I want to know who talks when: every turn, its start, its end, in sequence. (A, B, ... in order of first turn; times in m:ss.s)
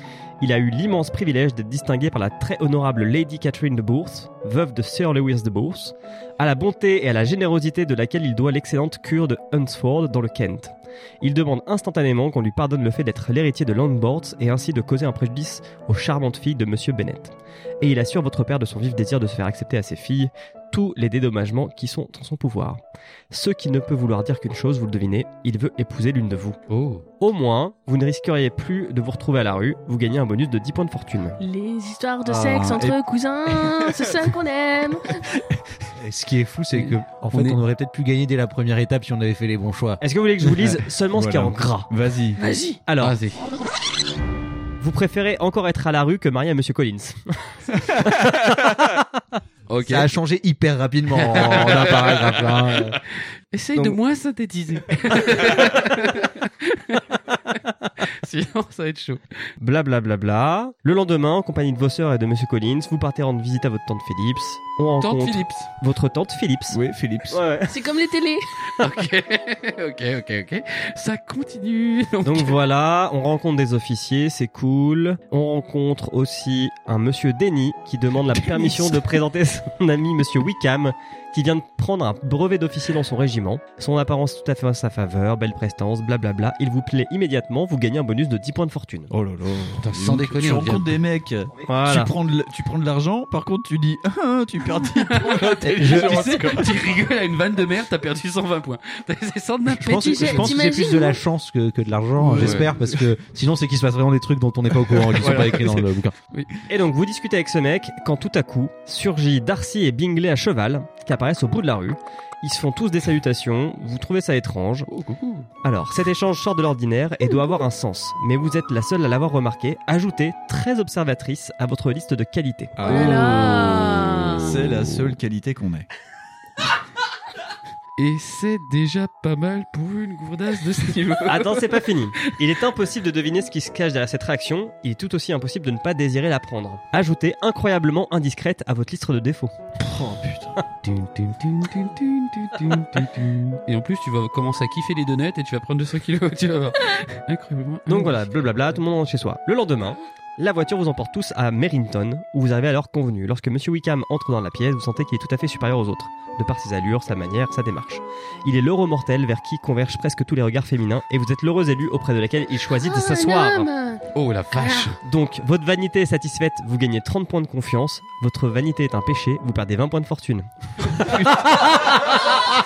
0:00.4-0:26.6 A
0:26.7-0:27.0 B
0:27.2-0:31.4 A
0:31.4-0:35.2 C
0:32.3-0:32.9 D
0:36.0-0:40.0 E
0:36.7-0:37.6 B
0:40.0-0:41.9 A
0:41.1-0:42.4 D
0:42.4-0:42.8 C
0:42.8-0:43.2 A
0:43.0-0:43.4 B
0:44.8-0:48.2 A
0:49.7-0:50.1 B
0:49.8-0:53.0 E
0:51.1-0:59.2 B
0:59.6-1:06.8 A
1:05.0-1:05.7 B
1:06.7-1:07.4 D
1:07.3-1:07.7 A
1:07.7-1:08.4 C
1:08.8-1:12.6 B
1:12.2-1:29.1 A
1:29.1-1:36.8 D
1:29.8-1:31.0 B
1:31.7-1:32.1 A
1:35.0-1:40.5 B
1:35.6-1:36.6 E
1:39.7-1:46.1 E
1:39.8-1:41.2 C
1:42.2-1:42.8 D
1:42.3-1:42.7 B
1:45.1-1:46.6 B
1:45.2-1:45.6 D
1:46.7-1:54.9 A
1:54.9-1:55.5 B
1:55.6-2:03.0 A
2:02.8-2:05.9 D
2:02.8-2:04.6 C
2:08.0-2:11.8 B
2:11.2-2:19.7 A
2:19.9-2:20.5 D
2:20.8-2:28.7 B
2:27.9-2:43.7 A
2:42.8-2:45.0 C
2:44.1-2:45.0 B
2:45.0-2:51.1 A